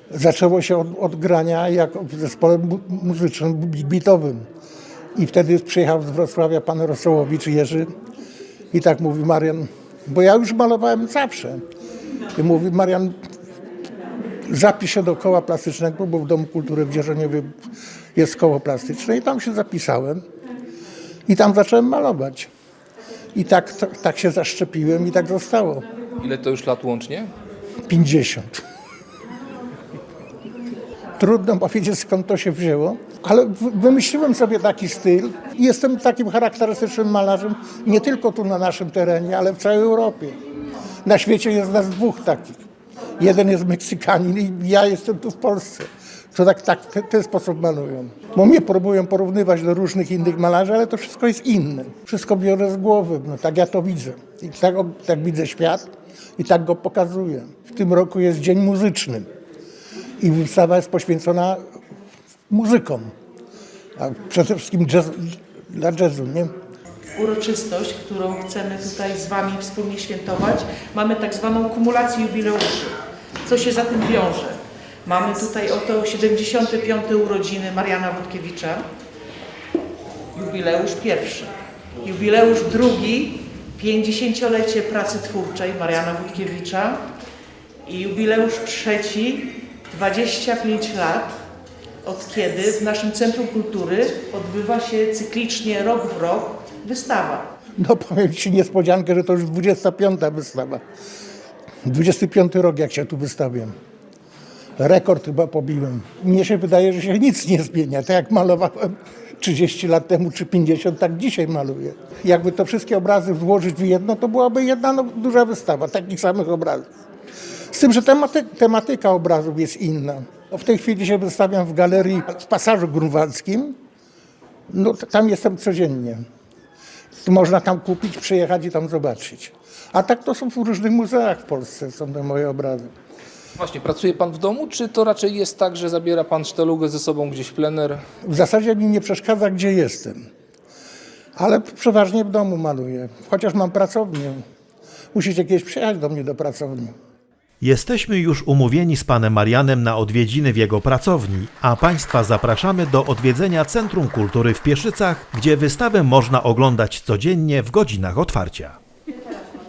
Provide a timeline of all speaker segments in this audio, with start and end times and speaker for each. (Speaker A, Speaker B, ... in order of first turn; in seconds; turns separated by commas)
Speaker A: 0.1-4.4, Speaker A: 5.2-7.9, Speaker A: 8.7-11.6, Speaker A: 12.3-13.2, Speaker A: 14.5-17.5, Speaker A: 18.1-20.2, Speaker A: 21.3-22.5, Speaker A: 23.4-25.9, Speaker B: 26.2-27.3, Speaker A: 27.9-28.6, Speaker A: 31.2-40.4, Speaker A: 41.0-42.6, Speaker A: 43.2-59.3, Speaker A: 60.2-61.6, Speaker A: 62.5-63.1, Speaker A: 64.0-66.5, Speaker C: 67.2-78.8, Speaker C: 80.3-87.0, Speaker C: 87.8-91.3, Speaker C: 92.0-97.5, Speaker A: 97.8-100.8, Speaker A: 101.9-103.7, Speaker A: 104.8-116.9, Speaker A: 117.7-123.8, Speaker A: 124.7-126.2, Speaker A: 127.2-132.9, Speaker B: 133.6-138.0, Speaker A: 138.2-140.2, Speaker A: 141.4-144.4, Speaker A: 145.1-146.9, Speaker D: 147.6-158.8